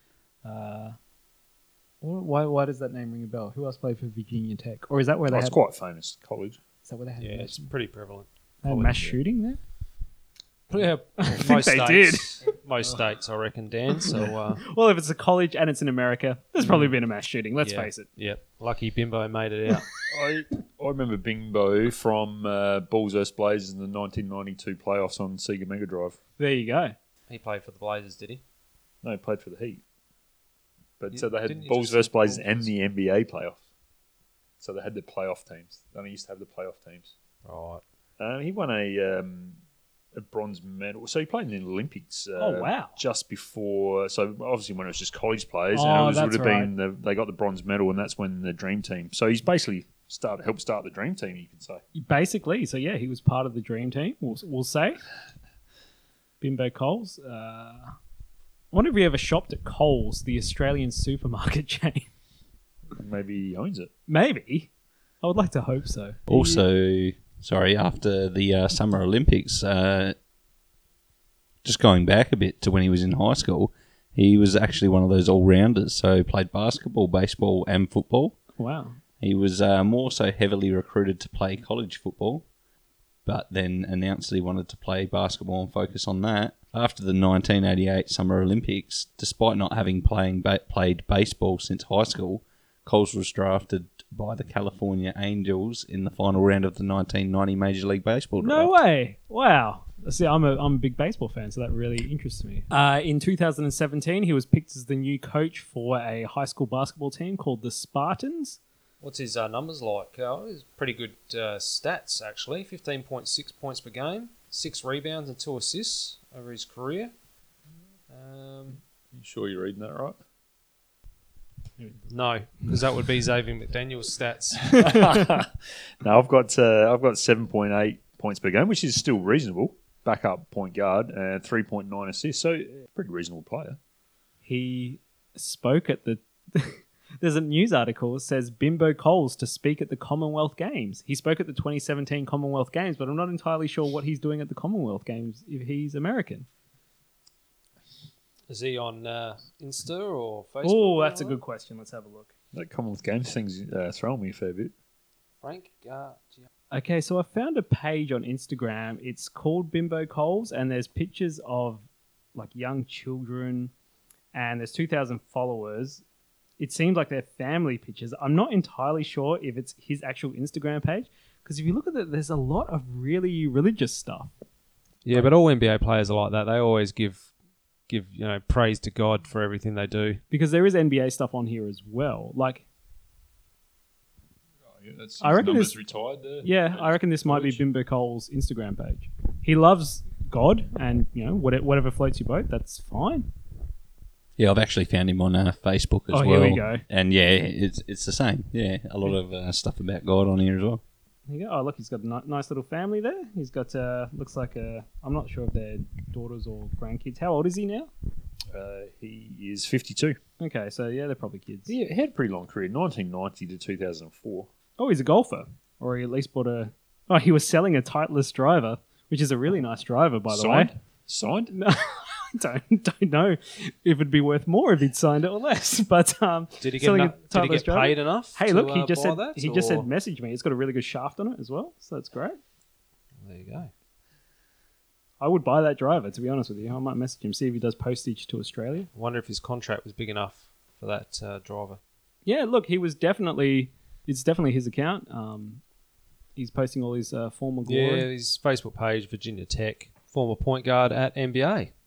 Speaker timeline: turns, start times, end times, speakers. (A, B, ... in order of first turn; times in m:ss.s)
0:00.4-0:01.0 A
0:02.0-0:05.6 A
0:05.3-0:06.6 B
0:06.8-0:07.7 A
0:07.2-0:09.2 C
0:08.6-0:09.6 A
0:10.7-0:14.6 C
0:11.2-0:12.4 A
0:14.1-0:18.1 A
0:16.6-0:16.9 C
0:17.6-0:19.9 C
0:20.1-0:26.2 B
0:26.4-0:27.0 A
0:27.3-0:28.4 C
0:29.0-0:29.8 B
0:31.0-0:33.6 B
0:31.1-0:32.7 C
0:34.6-0:37.1 B
0:37.4-0:37.8 C
0:38.2-0:39.6 B
0:40.2-0:51.8 B
0:42.4-0:43.0 A
0:45.7-0:46.7 A
0:51.9-0:55.0 A
0:56.4-0:57.9 A
0:58.7-1:02.1 A
1:03.0-1:03.9 B
1:04.1-1:04.7 A
1:05.2-1:06.6 A
1:06.3-1:10.2 D
1:11.6-1:18.4 D
1:18.6-1:19.0 A
1:19.2-1:22.4 D
1:23.3-1:38.7 D
1:38.4-1:48.6 A
1:49.0-1:57.1 C
1:58.1-1:58.8 C
1:59.1-2:00.2 B
2:02.1-2:04.9 C
2:04.7-2:05.5 B
2:06.0-2:13.8 B
2:14.4-2:26.5 A
2:28.5-2:31.4 C
2:30.6-2:32.3 A
2:32.5-2:34.7 B
2:35.4-2:36.5 C
2:36.7-2:43.7 A
2:44.3-2:46.0 A
2:46.6-2:54.3 A
2:55.0-2:57.3 C
2:57.9-3:00.2 C
3:00.3-3:02.7 A
3:04.7-3:07.6 B
3:05.2-3:05.8 A
3:06.4-3:13.3 A
3:14.4-3:20.8 D
3:16.1-3:16.8 A
3:21.3-3:27.9 A
3:28.5-3:30.2 B
3:30.4-3:31.7 A
3:31.7-3:34.5 B
3:34.8-3:40.7 A
3:40.3-3:41.5 B
3:41.5-3:52.4 A
3:46.6-3:49.9 C
3:53.2-3:53.7 C
3:55.2-3:58.9 A
3:59.0-4:01.8 C
4:02.2-4:05.6 A
4:06.4-4:08.1 A
4:07.7-4:11.7 C